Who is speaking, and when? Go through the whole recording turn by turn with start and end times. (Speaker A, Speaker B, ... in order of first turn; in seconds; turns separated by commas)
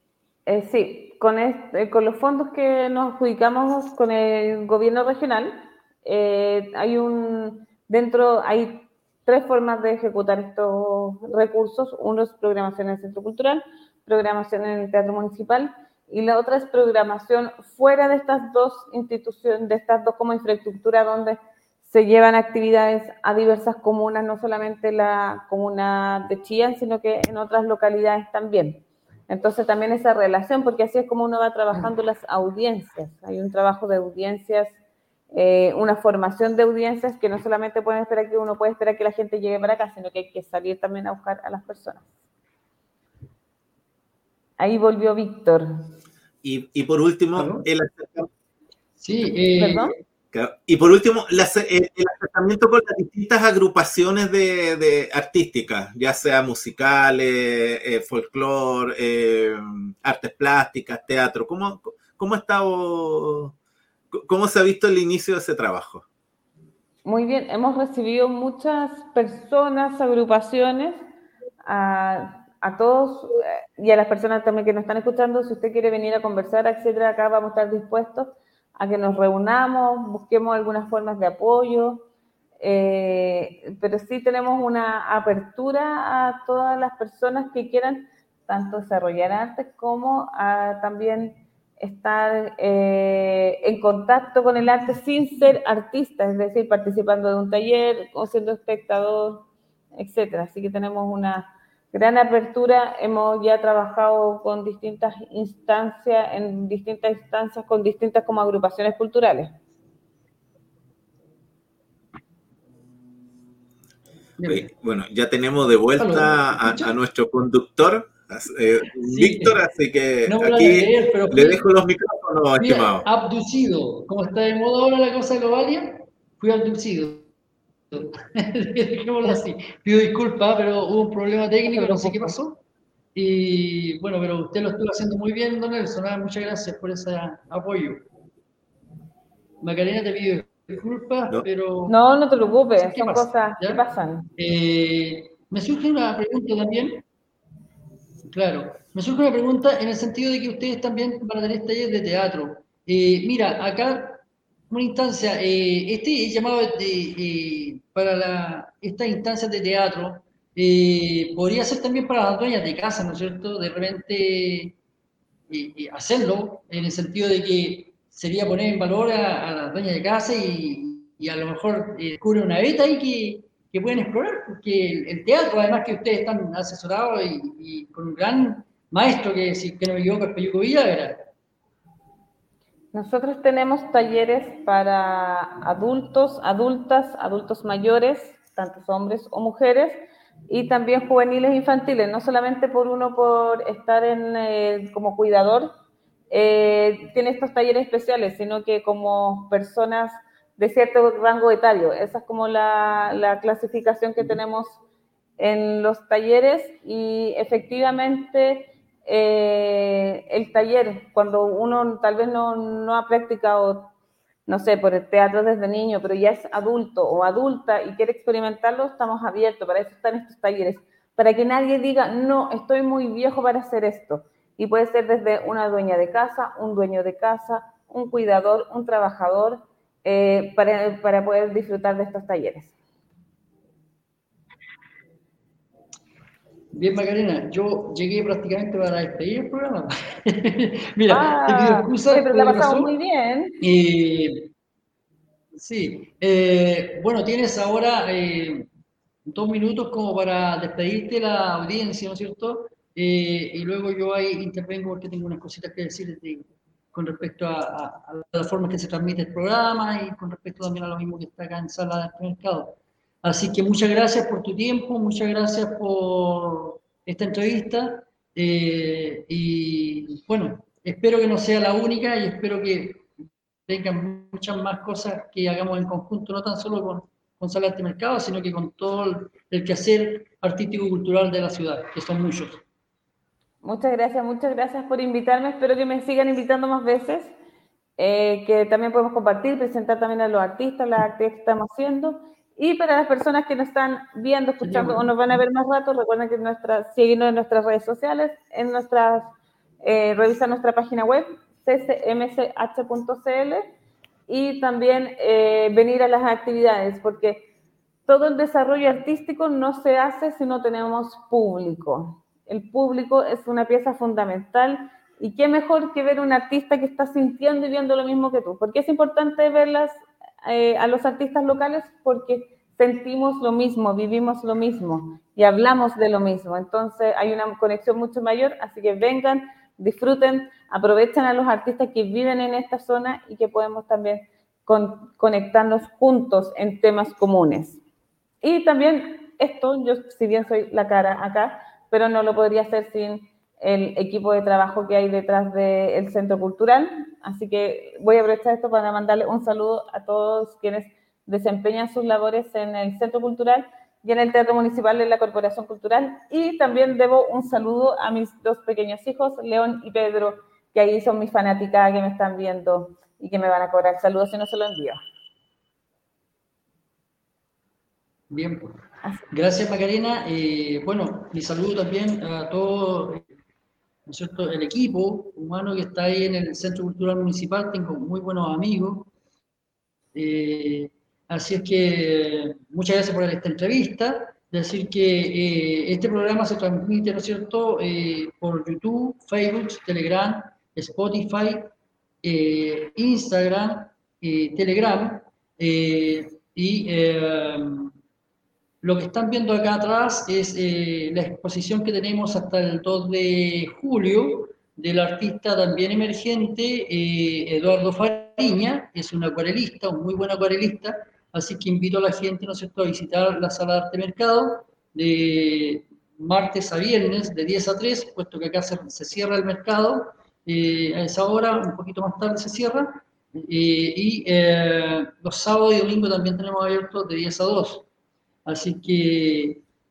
Speaker A: 0.5-34.8, Speaker A: 35.3-42.1, Speaker A: 44.6-45.8, Speaker B: 46.4-48.3, Speaker C: 47.4-47.7, Speaker C: 49.0-49.9, Speaker A: 49.6-49.9, Speaker B: 50.3-63.5, Speaker B: 64.1-66.0, Speaker A: 67.0-71.0, Speaker A: 71.6-82.0, Speaker A: 82.6-109.5, Speaker C: 114.4-114.7, Speaker B: 114.5-123.0, Speaker C: 116.0-116.9, Speaker C: 119.0-119.7, Speaker C: 120.2-121.6, Speaker C: 122.6-127.3, Speaker C: 127.9-132.6, Speaker A: 131.7-132.3, Speaker C: 133.1-138.0, Speaker C: 139.6-141.9, Speaker A: 141.9-144.3, Speaker C: 142.8-143.8, Speaker C: 144.4-147.1, Speaker C: 148.2-164.8, Speaker C: 165.5-181.2, Speaker A: 182.9-195.7, Speaker A: 196.3-204.8, Speaker A: 205.4-213.9, Speaker A: 214.5-232.8, Speaker C: 236.7-242.9, Speaker A: 241.1-243.6, Speaker C: 243.6-244.5, Speaker C: 245.5-248.7, Speaker C: 249.2-273.1, Speaker C: 273.7-282.6, Speaker A: 283.6-287.4, Speaker A: 288.0-303.7, Speaker C: 294.6-295.4, Speaker A: 304.3-307.5, Speaker A: 308.1-337.8, Speaker A: 338.4-365.0, Speaker C: 368.3-373.2, Speaker C: 374.1-379.1, Speaker C: 380.1-391.7, Speaker C: 392.2-397.9, Speaker C: 398.8-427.9, Speaker C: 428.4-429.6